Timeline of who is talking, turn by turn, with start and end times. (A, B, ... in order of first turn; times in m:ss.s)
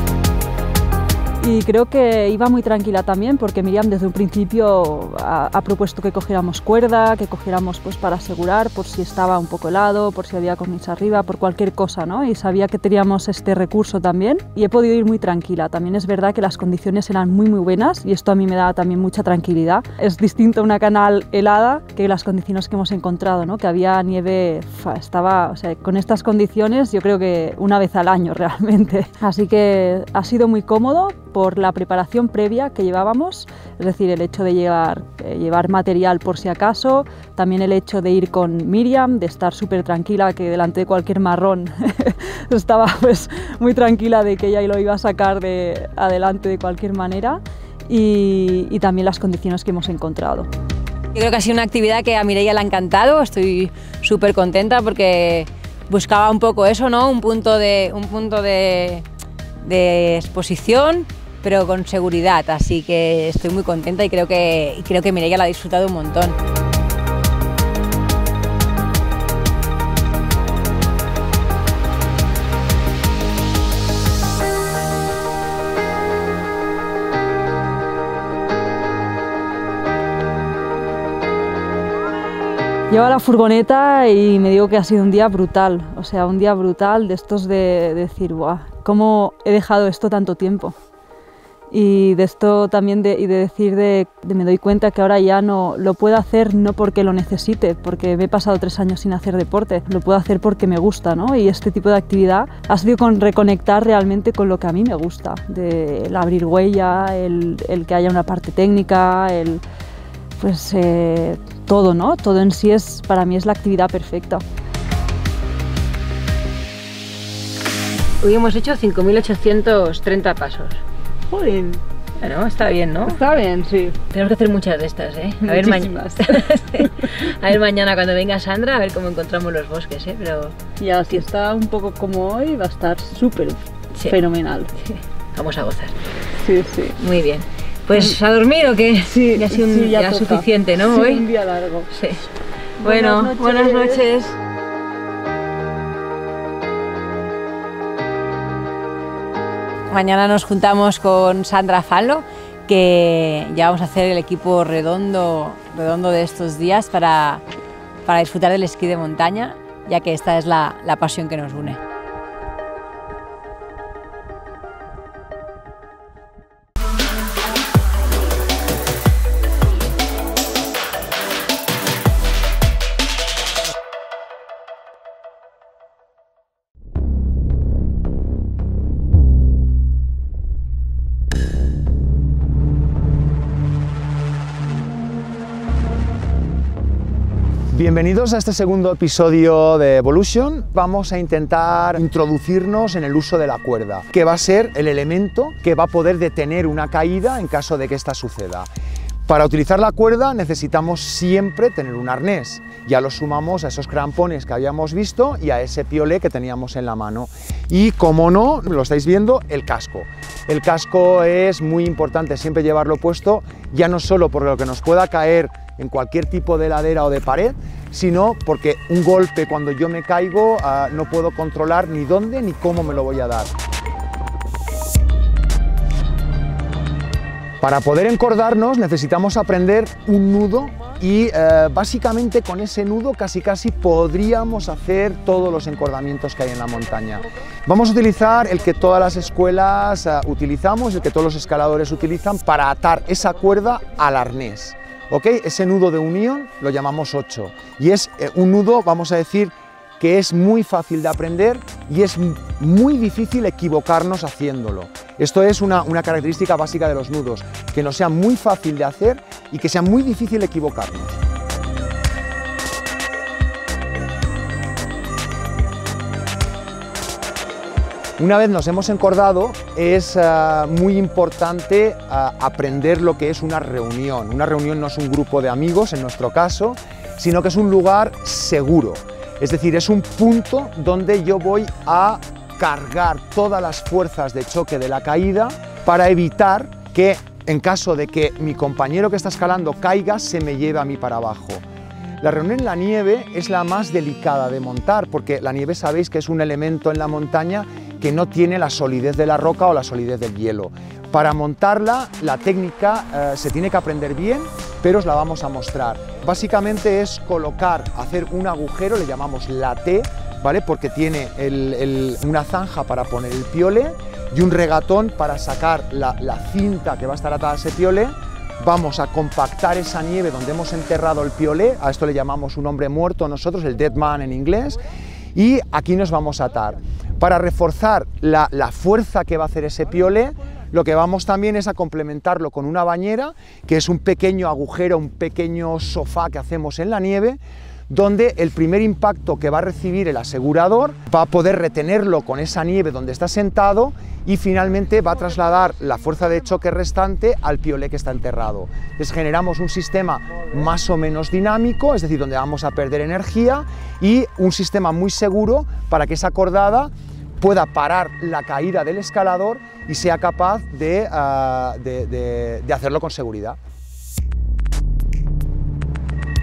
0:01.4-0:50.5 A
0:51.1-0:59.0 B
0:59.6-1:06.4 B
1:22.9-1:30.8 A
1:31.7-1:49.6 A
1:50.4-1:54.4 A
1:58.2-2:00.8 B
2:01.3-2:01.8 A
2:02.2-2:03.2 B
2:03.1-2:04.1 A
2:04.1-2:10.6 B
2:05.4-2:07.1 A
2:10.8-2:14.8 A
2:15.3-2:16.0 B
2:16.4-2:17.0 A
2:17.0-2:21.3 B
2:19.1-2:21.9 A
2:21.9-2:22.3 B
2:22.8-2:24.0 A
2:22.8-2:24.4 B
2:29.9-2:37.4 B
2:38.0-2:41.8 B
3:07.7-3:18.7 C
3:19.3-3:43.5 C
3:47.6-4:21.2 C
4:28.2-4:51.6 C
4:52.2-5:24.8 C
5:25.4-6:03.6 C